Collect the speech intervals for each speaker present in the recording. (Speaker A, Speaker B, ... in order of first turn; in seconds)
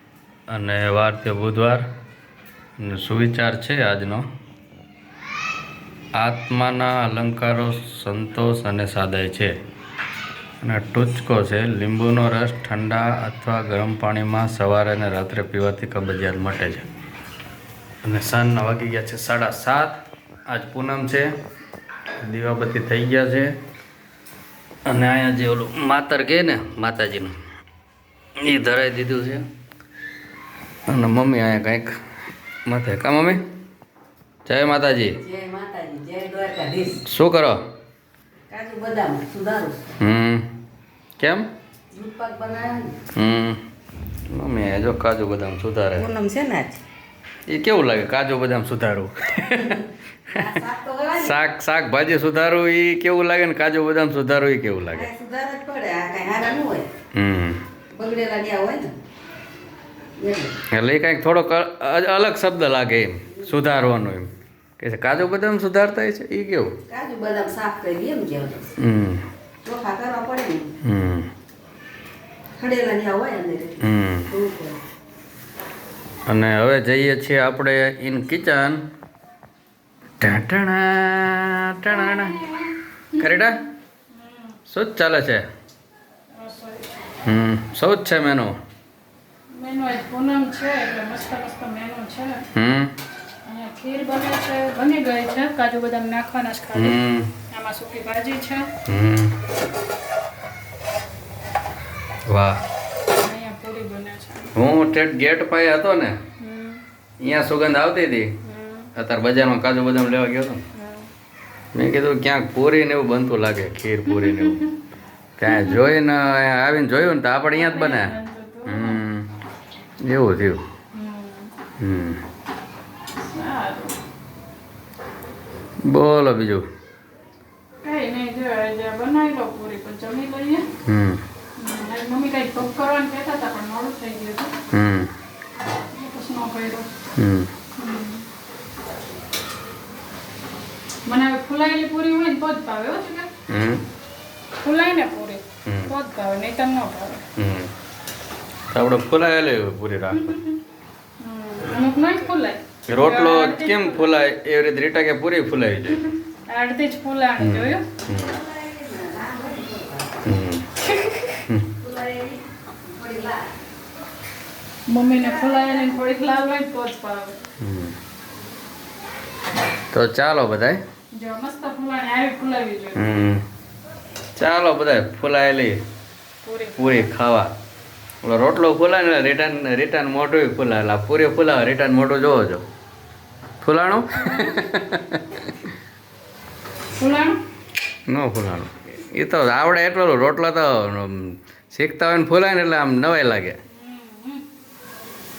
Speaker A: 0.5-1.9, 2.8-4.3, 6.2-9.6, 10.6-16.9, 18.0-21.3, 22.2-23.5, 24.9-27.4, 28.4-29.5, 30.9-32.0, 32.7-33.4, 34.5-35.2, 37.0-37.6, 40.0-40.5, 41.2-41.5, 43.1-43.6, 44.3-46.1, 47.5-50.5, 51.2-55.1, 57.1-57.6, 60.7-66.8, 68.8-69.2, 70.8-71.3, 73.8-74.3, 76.3-78.8, 80.2-82.5, 83.2-83.7, 84.7-85.5, 87.2-88.5, 92.5-93.0, 96.7-97.3, 98.8-99.4, 102.3-102.6, 104.5-106.2, 107.2-108.3, 109.0-110.7, 111.7-114.6, 115.4-118.1, 118.7-119.3, 120.0-120.6, 121.8-122.2, 125.8-126.7, 130.8-131.2, 134.7-135.1, 137.2-137.5, 143.5-143.8, 145.7-145.9, 147.4-147.7, 148.7-150.4, 152.9-156.1, 157.4-158.4, 160.2-160.7, 167.6-168.0, 169.9-170.8, 172.9-173.4, 174.4-175.8, 176.8-177.6, 178.2-182.6, 183.6-185.7, 188.1-193.6
Speaker B: 35.2-37.0, 38.5-40.0, 41.9-43.0, 46.0-46.8, 49.5-51.4, 54.9-56.9, 57.9-59.0, 60.2-60.6, 66.9-68.8, 69.6-70.7, 72.6-74.8, 158.2-160.2, 161.7-163.5
Speaker C: 81.9-83.6, 84.1-84.6, 86.3-86.9, 89.5-92.5, 93.5-98.7, 103.2-104.5, 106.4-106.8, 108.4-108.9, 110.8-111.1, 114.1-114.7, 115.5-115.8, 117.5-119.0, 120.9-121.5, 123.2-124.0, 127.8-130.7, 131.6-134.6, 135.9-136.9, 137.8-138.2, 141.1-143.3, 144.6-147.2, 150.2-150.6, 151.2-154.2, 156.5-157.9, 161.0-161.4, 164.9-167.4, 171.1-173.0, 176.4-177.1, 184.2-184.8, 187.0-187.4, 193.7-194.4